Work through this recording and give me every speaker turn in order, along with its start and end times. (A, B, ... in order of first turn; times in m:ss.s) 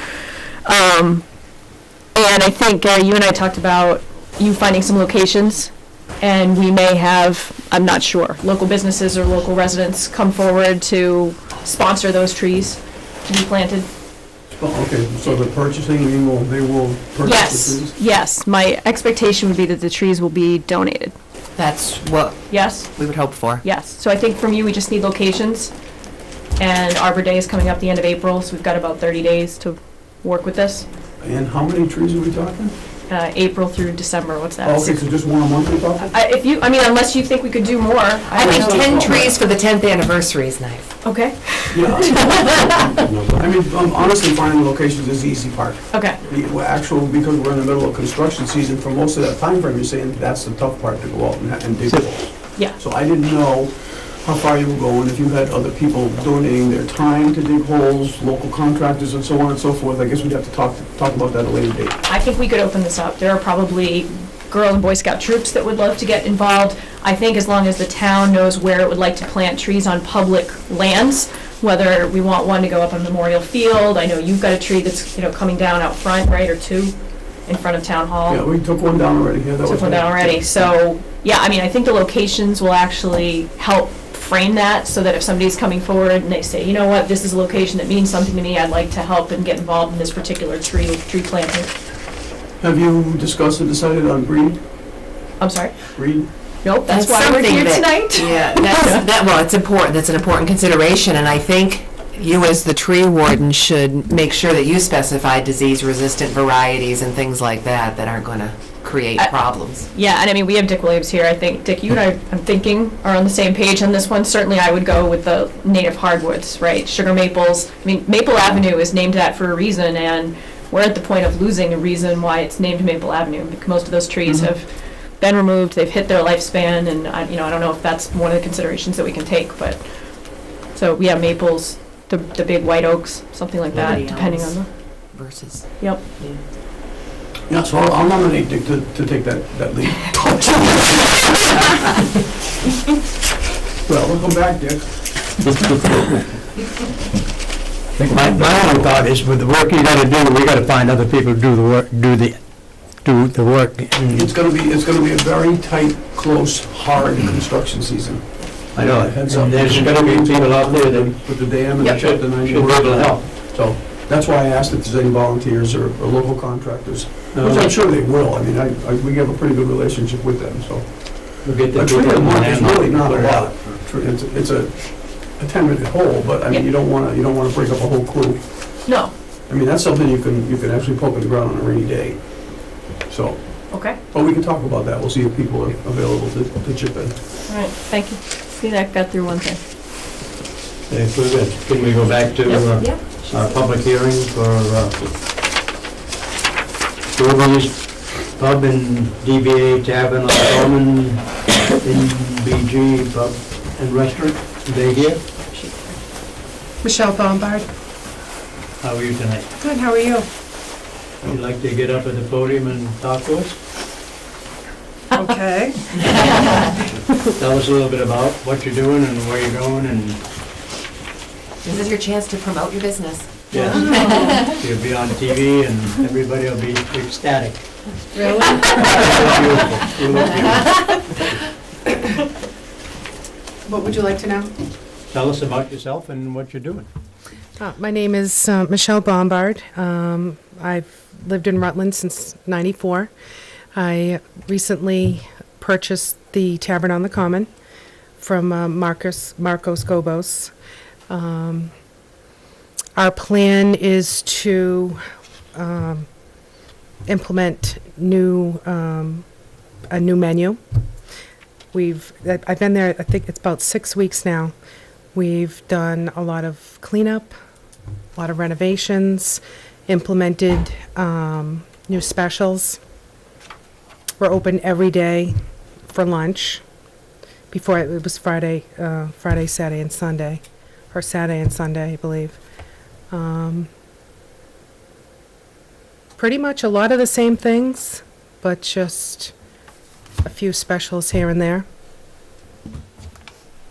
0:00.7-0:01.3 A
0:02.2-0:13.9 A
0:14.5-0:18.0 B
0:17.2-0:21.2 A
0:21.6-0:23.6 C
0:22.5-0:22.9 A
0:23.6-0:25.7 A
0:26.6-0:30.9 A
0:31.2-0:32.8 B
0:33.1-0:35.0 A
0:34.6-0:36.1 B
0:36.0-0:39.3 A
0:38.4-0:40.9 C
0:38.4-0:39.4 B
0:41.0-0:42.3 A
0:41.7-1:02.0 B
0:42.1-0:42.9 C
0:45.9-0:46.2 A
1:02.1-1:17.0 A
1:17.5-1:18.4 A
1:18.3-1:20.5 B
1:19.6-1:31.7 A
1:32.6-1:34.6 B
1:35.4-1:35.8 A
1:35.9-1:36.3 B
1:36.6-1:39.1 A
1:36.9-1:49.9 C
1:49.9-2:04.7 A
2:05.2-2:09.9 A
2:10.7-2:14.7 A
2:13.7-2:14.6 C
2:15.1-2:16.4 C
2:17.5-2:22.2 B
2:23.8-2:25.0 B
2:28.0-2:34.3 D
2:28.1-2:28.9 B
2:34.1-2:58.7 B
2:38.8-2:41.2 D
2:41.8-2:43.3 D
2:47.4-2:47.7 D
2:51.4-2:53.7 D
2:58.9-2:59.1 A
2:59.5-3:07.2 B
3:03.7-3:04.0 A
3:07.5-3:09.6 A
3:10.9-3:15.1 D
3:12.7-3:13.4 C
3:17.1-3:25.2 D
3:25.5-3:26.0 A
3:26.8-3:27.7 E
3:28.8-3:29.5 D
3:29.6-3:30.3 E
3:31.2-3:33.6 D
3:35.1-3:36.7 E
3:37.2-3:40.2 D
3:41.6-3:43.3 C
3:43.5-3:47.7 D
3:43.5-3:44.4 E
3:43.9-3:44.5 C
3:48.1-3:49.3 E
3:48.7-3:51.0 D
3:53.6-3:54.5 E
3:55.1-3:56.9 D
3:57.6-4:03.1 E
4:03.8-4:07.5 E
4:08.2-4:10.5 E
4:11.1-4:11.7 E
4:13.0-4:15.0 E
4:15.6-4:16.1 E
4:17.1-4:19.2 E
4:19.9-4:20.6 E
4:21.7-4:24.5 E
4:25.1-4:27.4 E
4:28.2-4:32.8 E
4:34.2-4:35.3 E
4:35.9-4:36.6 E
4:37.5-4:42.4 E
4:43.1-4:43.7 E
4:46.2-4:49.3 E
4:50.2-4:51.6 E